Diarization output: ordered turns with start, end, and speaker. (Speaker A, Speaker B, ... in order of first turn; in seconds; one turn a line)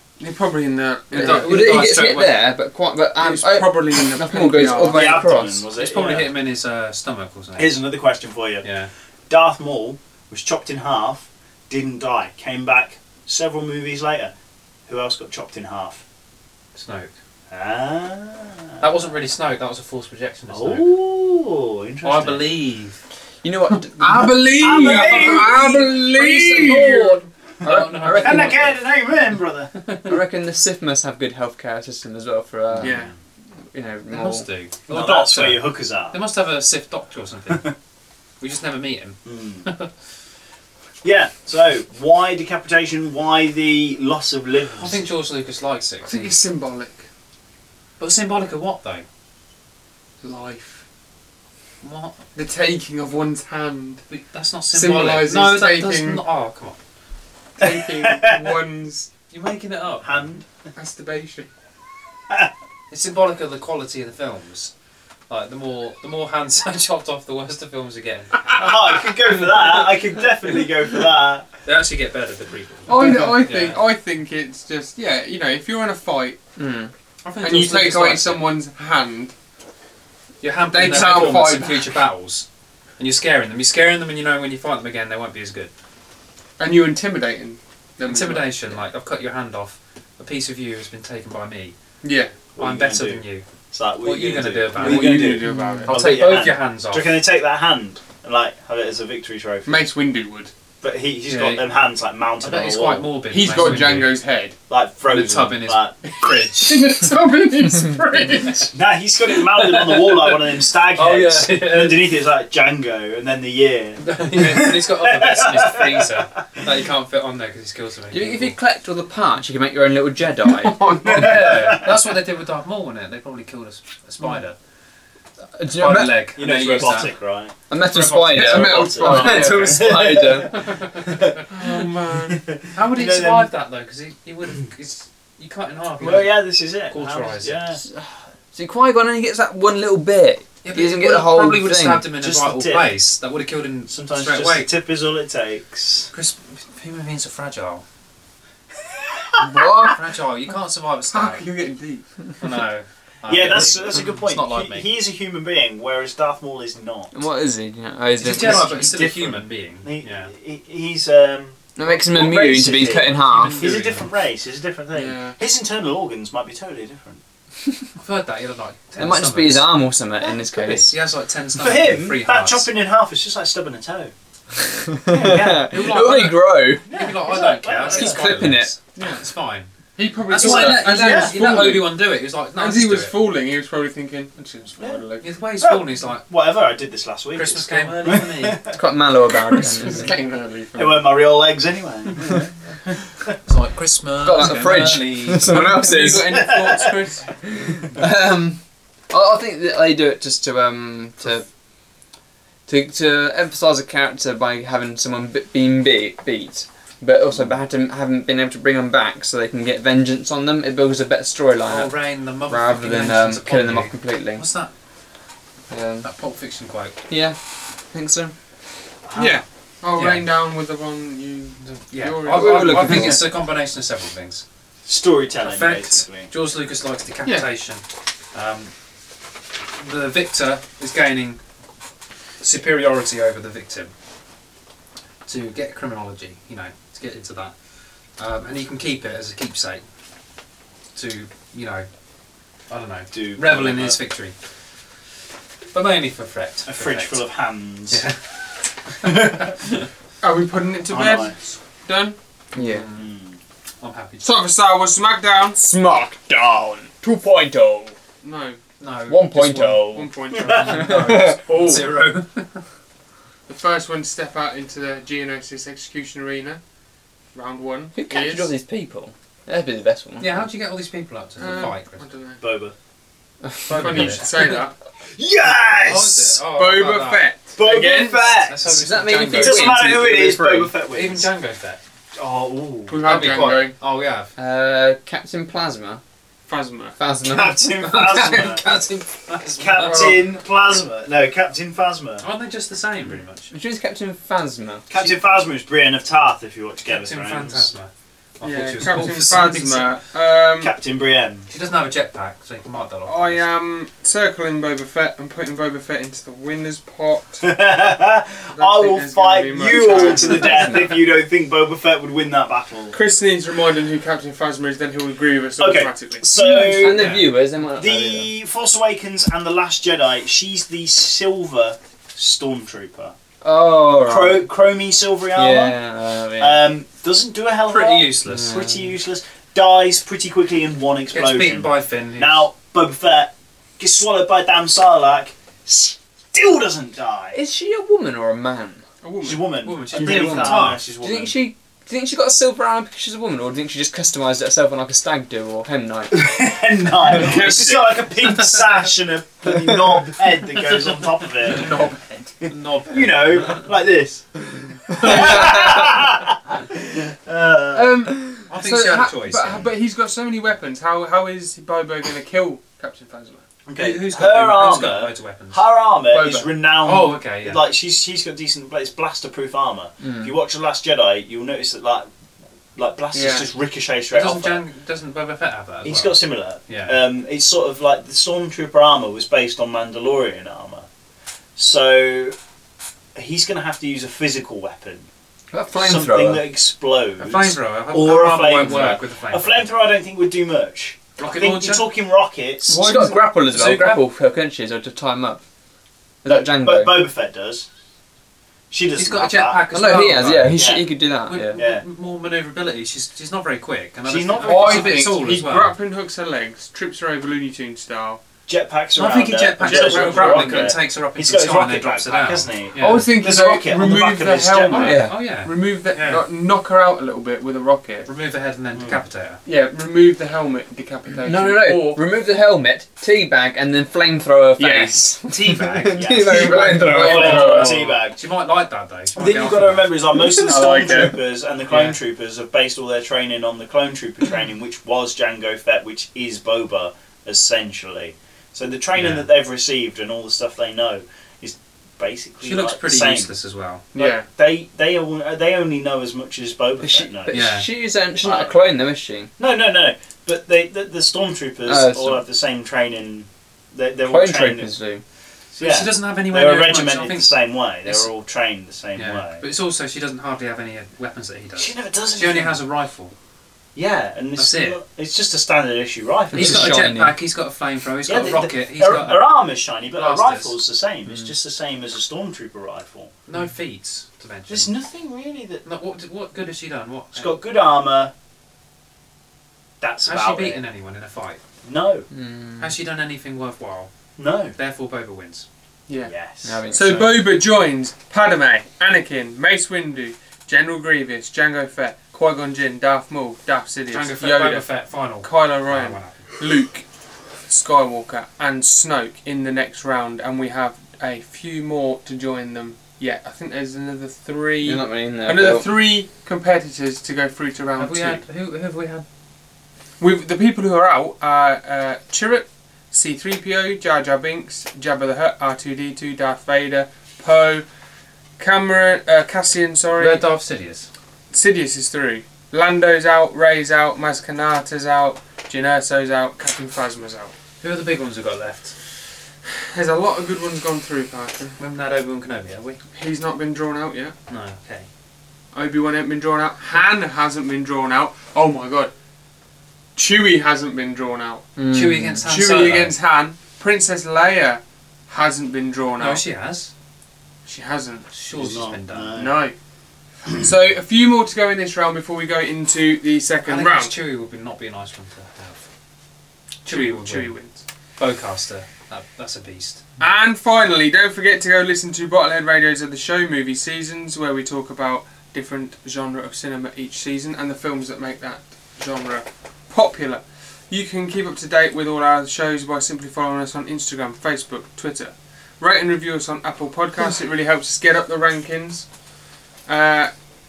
Speaker A: 0.2-1.8
Speaker B: 1.1-5.6
Speaker C: 1.1-2.4
Speaker A: 3.2-5.2
Speaker D: 4.8-6.3
Speaker C: 5.7-7.8
Speaker D: 7.6-8.7
Speaker C: 8.6-8.9
Speaker D: 9.3-14.3
Speaker D: 14.9-16.0
Speaker C: 16.7-17.1
Speaker D: 17.5-18.9
Speaker C: 18.8-20.9
Speaker D: 20.5-22.5
Speaker C: 22.0-23.0
Speaker B: 23.4-24.7
Speaker A: 23.9-27.2
Speaker D: 24.6-26.8
Speaker C: 24.8-25.5
Speaker C: 26.1-28.8
Speaker B: 26.7-27.0
Speaker B: 27.6-28.7
Speaker D: 27.6-29.7
Speaker C: 29.8-30.2
Speaker B: 30.0-33.1
Speaker D: 32.7-33.1
Speaker A: 32.8-33.1
Speaker B: 33.7-34.5
Speaker C: 34.1-37.7
Speaker D: 34.9-36.2
Speaker C: 38.4-39.9
Speaker D: 39.2-39.7
Speaker D: 41.0-45.0
Speaker C: 44.7-46.4
Speaker A: 46.0-47.0
Speaker C: 48.0-49.0
Speaker A: 50.2-50.8
Speaker C: 51.8-52.1
Speaker A: 52.3-54.0
Speaker C: 54.1-56.8
Speaker A: 54.7-56.2
Speaker A: 57.6-59.1
Speaker D: 57.6-58.5
Speaker C: 59.3-60.2
Speaker D: 60.0-60.5
Speaker A: 60.7-61.5
Speaker C: 62.9-64.7
Speaker C: 65.3-68.5
Speaker D: 68.5-71.5
Speaker C: 71.6-73.8
Speaker A: 72.8-76.4
Speaker B: 76.6-76.9
Speaker C: 77.2-78.5
Speaker A: 77.4-79.3
Speaker C: 80.4-85.7
Speaker A: 80.7-81.9
Speaker A: 86.6-88.6
Speaker C: 88.0-91.7
Speaker A: 92.0-92.3
Speaker D: 92.5-99.9
Speaker C: 92.6-93.5
Speaker C: 94.0-95.2
Speaker A: 94.8-95.9
Speaker C: 95.8-97.2
Speaker A: 99.7-100.5
Speaker D: 100.8-103.1
Speaker C: 101.2-101.7
Speaker C: 102.4-104.2
Speaker A: 103.3-104.5
Speaker D: 104.7-106.2
Speaker C: 105.1-106.9
Speaker A: 106.5-108.7
Speaker D: 108.7-116.6
Speaker C: 109.6-112.2
Speaker C: 114.0-118.5
Speaker B: 118.1-120.8
Speaker A: 120.7-121.2
Speaker D: 121.0-122.0
Speaker C: 121.0-124.6
Speaker B: 125.6-126.1
Speaker C: 125.8-127.1
Speaker D: 126.3-127.5
Speaker B: 127.7-130.6
Speaker C: 127.7-128.8
Speaker A: 128.3-129.8
Speaker D: 128.3-131.4
Speaker C: 130.5-131.2
Speaker A: 131.5-132.4
Speaker D: 132.3-133.5
Speaker C: 132.7-137.6
Speaker D: 136.0-137.8
Speaker B: 137.8-142.1
Speaker C: 140.6-144.7
Speaker D: 142.1-142.9
Speaker D: 143.9-146.1
Speaker C: 146.1-147.8
Speaker D: 149.2-149.6
Speaker B: 149.4-150.0
Speaker C: 149.9-151.4
Speaker A: 151.1-152.1
Speaker C: 152.4-154.9
Speaker D: 153.3-157.1
Speaker B: 157.1-158.7
Speaker C: 158.2-160.3
Speaker D: 158.3-167.2
Speaker B: 161.8-163.6
Speaker C: 163.1-164.1
Speaker A: 164.9-165.4
Speaker C: 168.0-169.8
Speaker B: 169.0-170.9
Speaker C: 170.5-172.7
Speaker D: 171.5-174.1
Speaker B: 174.7-176.8
Speaker D: 175.1-175.9
Speaker C: 175.7-179.7
Speaker D: 176.9-178.4
Speaker B: 177.8-178.7
Speaker A: 178.9-179.2
Speaker A: 179.9-182.0
Speaker C: 180.3-183.2
Speaker D: 180.4-181.3
Speaker A: 182.6-185.3
Speaker C: 185.2-186.3
Speaker D: 185.6-188.8
Speaker C: 187.3-188.6
Speaker B: 188.7-190.1
Speaker A: 189.5-191.1
Speaker D: 190.8-193.3
Speaker C: 193.4-195.6
Speaker B: 194.2-196.5
Speaker A: 195.5-197.4
Speaker D: 196.4-196.8
Speaker B: 197.5-201.5
Speaker B: 202.7-214.4
Speaker C: 211.7-214.7
Speaker B: 215.7-216.1
Speaker C: 216.0-217.0
Speaker B: 217.1-218.3
Speaker D: 219.0-219.4
Speaker A: 219.1-223.2
Speaker C: 219.9-220.3
Speaker C: 221.6-224.4
Speaker B: 222.3-223.2
Speaker D: 224.8-226.3
Speaker C: 225.4-228.7
Speaker C: 229.7-231.4
Speaker C: 232.4-233.9
Speaker C: 235.2-237.6
Speaker C: 238.1-239.8
Speaker C: 240.9-241.9
Speaker C: 242.7-244.3
Speaker D: 243.1-244.0
Speaker C: 245.7-247.2
Speaker D: 246.7-248.0
Speaker C: 247.9-248.3
Speaker D: 249.0-249.5
Speaker A: 250.2-252.2
Speaker D: 250.9-251.3
Speaker C: 252.5-253.1
Speaker B: 252.6-252.9
Speaker D: 253.0-253.4
Speaker C: 253.8-254.3
Speaker A: 254.2-255.6
Speaker B: 255.6-257.9
Speaker A: 258.2-258.6
Speaker C: 258.8-259.9
Speaker B: 259.1-260.1
Speaker A: 259.9-260.9
Speaker C: 260.4-262.6
Speaker B: 260.7-261.4
Speaker A: 261.5-261.9
Speaker A: 263.5-266.6
Speaker A: 267.3-268.5
Speaker B: 267.9-270.5
Speaker C: 270.2-272.1
Speaker A: 271.4-272.4
Speaker D: 272.4-272.7
Speaker B: 273.4-274.2
Speaker C: 273.7-274.2
Speaker A: 273.7-274.7
Speaker D: 275.1-276.4
Speaker C: 275.8-277.3
Speaker A: 276.5-278.4
Speaker D: 277.6-278.6
Speaker C: 278.5-279.7
Speaker B: 278.6-280.2
Speaker D: 279.3-281.3
Speaker A: 279.7-280.6
Speaker C: 280.9-281.8
Speaker D: 282.1-283.2
Speaker A: 282.9-283.7
Speaker C: 283.0-284.3
Speaker B: 284.4-286.0
Speaker A: 286.5-286.9
Speaker B: 287.0-287.7
Speaker D: 287.2-288.6
Speaker C: 287.8-290.2
Speaker D: 289.5-292.2
Speaker A: 289.7-290.2
Speaker C: 292.2-293.5
Speaker B: 293.5-294.9
Speaker D: 294.9-297.7
Speaker C: 296.9-300.0
Speaker A: 298.4-300.7
Speaker D: 300.6-301.5
Speaker C: 301.5-303.5
Speaker A: 303.1-307.4
Speaker D: 307.4-312.9
Speaker A: 308.5-310.8
Speaker B: 309.9-310.9
Speaker A: 312.9-316.3
Speaker D: 315.6-317.1
Speaker B: 316.3-318.3
Speaker C: 316.8-317.3
Speaker D: 317.7-323.1
Speaker B: 323.4-324.5
Speaker D: 324.1-325.8
Speaker B: 325.3-326.6
Speaker D: 326.4-337.4
Speaker C: 327.7-328.6
Speaker B: 328.3-328.9
Speaker C: 331.1-332.5
Speaker B: 337.3-338.8
Speaker A: 339.0-339.5
Speaker D: 339.2-341.4
Speaker C: 339.6-340.8
Speaker B: 339.9-346.2
Speaker D: 346.1-351.8
Speaker B: 347.1-347.7
Speaker A: 347.1-347.9
Speaker A: 351.4-352.3
Speaker C: 352.4-353.6
Speaker D: 352.9-358.0
Speaker B: 354.9-355.8
Speaker A: 355.0-355.4
Speaker A: 357.7-363.4
Speaker C: 358.5-359.7
Speaker D: 363.7-372.1
Speaker C: 363.8-365.7
Speaker A: 366.1-366.6
Speaker C: 366.8-367.6
Speaker B: 370.0-370.3
Speaker D: 372.7-374.6
Speaker A: 373.1-373.5
Speaker C: 374.1-377.0
Speaker D: 375.8-380.9
Speaker D: 381.6-382.3
Speaker D: 383.1-385.1
Speaker B: 385.5-386.4
Speaker D: 385.8-392.8
Speaker C: 387.2-389.7
Speaker B: 388.6-388.9
Speaker C: 391.2-391.9
Speaker B: 392.7-395.4
Speaker C: 392.8-394.1
Speaker B: 396.2-397.0
Speaker D: 396.2-397.7
Speaker D: 398.7-399.6
Speaker C: 398.9-400.6
Speaker B: 399.7-401.6
Speaker D: 400.5-400.9
Speaker C: 401.2-405.7
Speaker D: 401.5-401.8
Speaker D: 404.0-405.1
Speaker A: 404.4-408.2
Speaker D: 408.5-414.9
Speaker C: 408.9-413.0
Speaker A: 409.6-410.7
Speaker A: 412.8-418.1
Speaker C: 414.7-416.2
Speaker B: 414.8-415.2
Speaker C: 418.1-419.4
Speaker D: 418.7-419.0
Speaker A: 419.4-422.0
Speaker B: 421.2-427.8
Speaker A: 424.6-425.1
Speaker C: 425.2-429.9
Speaker D: 425.9-428.2
Speaker A: 426.8-427.8
Speaker D: 429.1-443.3
Speaker A: 430.3-431.1
Speaker C: 431.7-432.0
Speaker C: 438.9-439.3
Speaker C: 442.4-443.8
Speaker A: 443.9-444.3
Speaker D: 443.9-447.4
Speaker B: 446.8-449.3
Speaker C: 447.3-447.7
Speaker D: 448.2-448.6
Speaker D: 449.4-454.7
Speaker B: 451.6-452.2
Speaker B: 454.1-455.0
Speaker C: 455.6-458.1
Speaker D: 455.6-459.4
Speaker C: 458.9-463.1
Speaker D: 461.6-462.6
Speaker D: 463.7-466.8
Speaker C: 464.4-464.8
Speaker B: 466.3-467.2
Speaker C: 466.3-469.4
Speaker D: 468.1-473.1
Speaker C: 469.9-470.6
Speaker C: 473.3-474.7
Speaker D: 474.5-475.6
Speaker C: 475.6-477.4
Speaker D: 477.1-478.1
Speaker D: 479.8-480.6
Speaker C: 480.0-481.4
Speaker D: 481.6-482.1
Speaker B: 482.1-482.8
Speaker C: 482.6-483.9
Speaker D: 484.2-484.5
Speaker C: 484.5-485.5
Speaker D: 486.0-486.6
Speaker B: 486.4-487.3
Speaker A: 486.7-496.8
Speaker C: 493.9-496.3
Speaker A: 497.4-508.2
Speaker B: 504.6-505.7
Speaker C: 507.8-509.0
Speaker A: 510.0-517.7
Speaker A: 518.4-520.2
Speaker C: 520.0-520.9
Speaker A: 521.3-527.3
Speaker C: 527.6-528.7
Speaker A: 529.5-531.5
Speaker C: 531.6-532.8
Speaker A: 532.9-534.1
Speaker C: 534.3-534.9
Speaker A: 535.5-538.9
Speaker A: 540.0-541.4
Speaker B: 541.5-542.2
Speaker C: 541.7-542.9
Speaker A: 542.2-546.2
Speaker C: 546.0-546.7
Speaker A: 547.4-548.1
Speaker C: 548.1-549.2
Speaker D: 548.3-549.4
Speaker A: 549.1-549.5
Speaker A: 550.4-553.9
Speaker C: 553.4-555.6
Speaker C: 556.6-557.4
Speaker A: 556.6-557.6
Speaker C: 558.0-559.8
Speaker A: 560.0-578.9
Speaker A: 579.7-580.1